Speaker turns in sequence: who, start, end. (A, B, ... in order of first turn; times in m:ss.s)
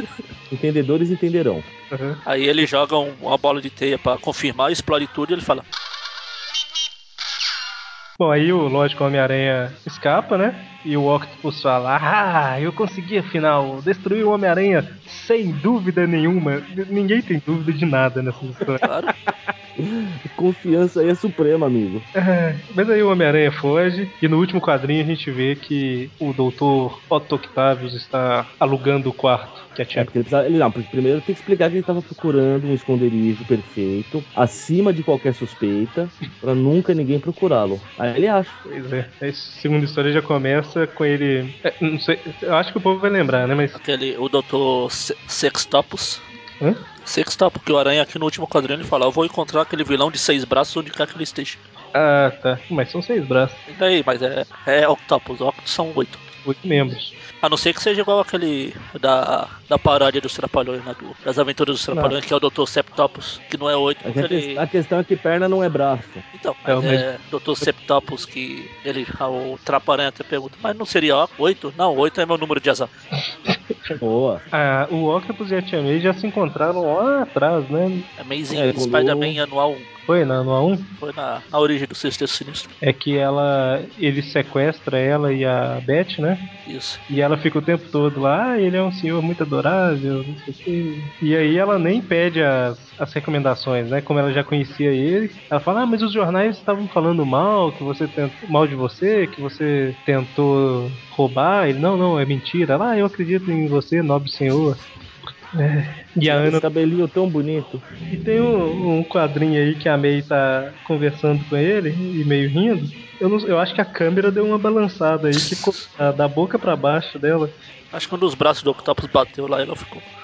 0:00.5-0:01.6 A
0:01.9-0:02.2 B
0:02.2-0:05.6 C
0:08.2-0:18.8 B
0:18.8-0:19.1 C
0:19.2-0:22.0 A
0:22.2-0:30.1 B
0:29.9-0:38.6 A
0:38.6-0:43.8 B
0:43.7-0:46.2 C
0:47.0-0:51.6 C
0:51.9-0:53.6 B
0:53.7-0:56.2 C
0:56.4-0:57.1 B
0:57.4-1:04.6 C
1:04.0-1:06.2 A
1:06.3-1:12.9 C
1:06.7-1:07.0 B
1:14.0-1:14.4 A
1:14.5-1:18.1 B
1:18.2-1:19.9 C
1:18.5-1:19.4 A
1:20.1-1:20.9 B
1:21.0-1:22.7 C
1:22.8-1:26.4 B
1:26.6-1:27.0 C
1:27.1-1:44.8 B
1:45.5-1:46.6 B
1:46.2-1:47.8 A
1:48.1-1:57.5 B
1:57.9-2:00.1 C